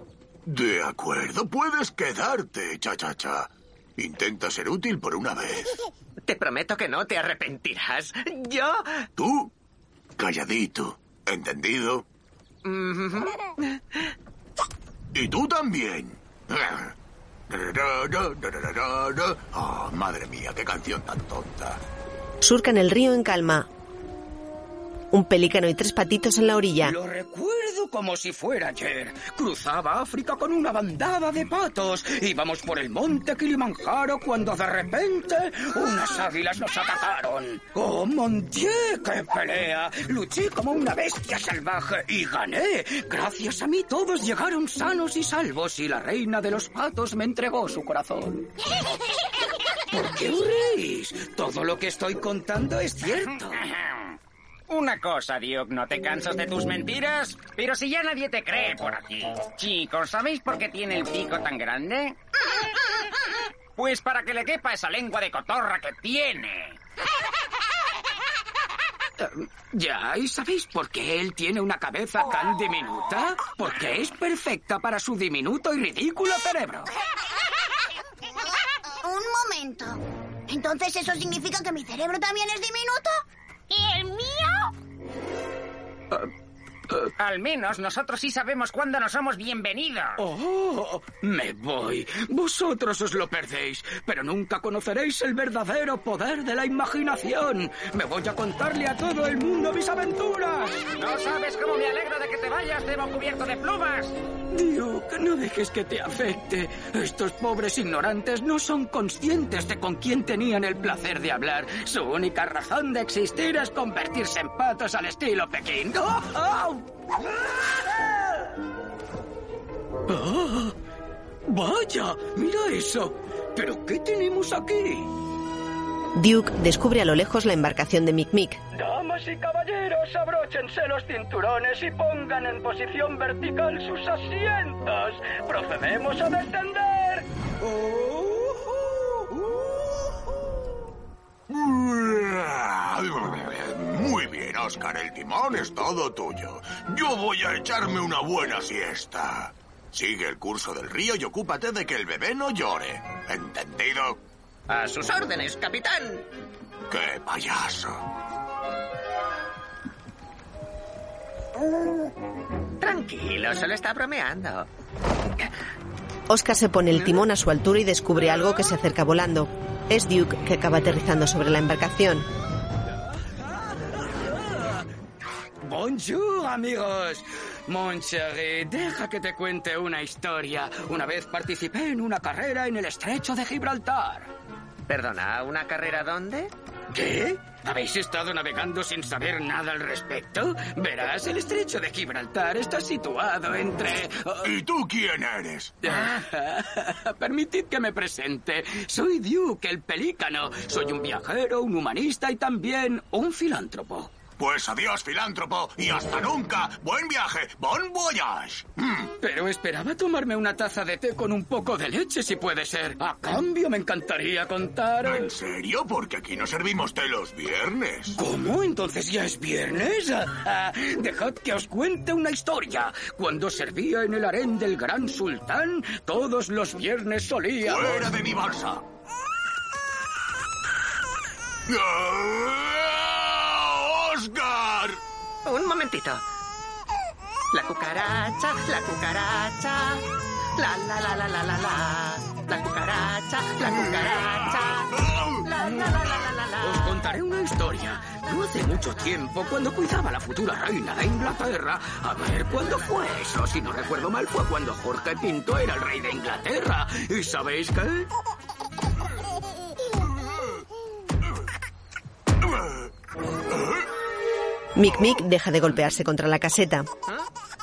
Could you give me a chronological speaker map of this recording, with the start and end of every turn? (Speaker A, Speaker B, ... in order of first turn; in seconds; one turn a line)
Speaker A: 0.5-5.8
Speaker B: 6.2-9.1
Speaker A: 9.2-9.5
Speaker A: 10.2-12.0
Speaker B: 12.6-14.1
Speaker A: 15.1-16.9
Speaker A: 17.5-21.8
Speaker C: 22.4-23.7
Speaker C: 25.1-27.0
Speaker D: 26.8-48.5
Speaker D: 49.9-53.6
Speaker E: 54.7-62.1
Speaker E: 63.8-66.7
Speaker D: 69.2-76.9
Speaker F: 79.0-84.7
Speaker E: 87.2-90.1
Speaker D: 90.2-101.0
Speaker E: 101.0-104.1
Speaker D: 104.5-116.8
Speaker D: 120.1-120.8
Speaker D: 121.5-125.1
Speaker C: 126.2-128.6
Speaker D: 128.7-139.3
Speaker A: 141.5-154.2
Speaker B: 154.7-156.3
Speaker A: 156.9-158.0
Speaker B: 162.8-164.7
Speaker C: 166.3-172.3
Speaker D: 173.5-174.8
Speaker D: 175.6-184.3
Speaker B: 184.9-186.5
Speaker D: 186.9-194.5
Speaker A: 194.4-195.9
Speaker D: 195.8-204.1
Speaker A: 204.4-209.1
Speaker D: 209.2-215.3
Speaker A: 215.1-218.2
Speaker D: 218.2-228.1
Speaker A: 227.6-228.8
Speaker A: 231.7-235.0
Speaker B: 235.4-236.2
Speaker B: 237.5-240.1
Speaker B: 240.6-247.0
Speaker A: 244.9-245.5
Speaker D: 246.6-258.1
Speaker A: 262.4-262.9
Speaker A: 263.6-263.8
Speaker C: 264.8-266.9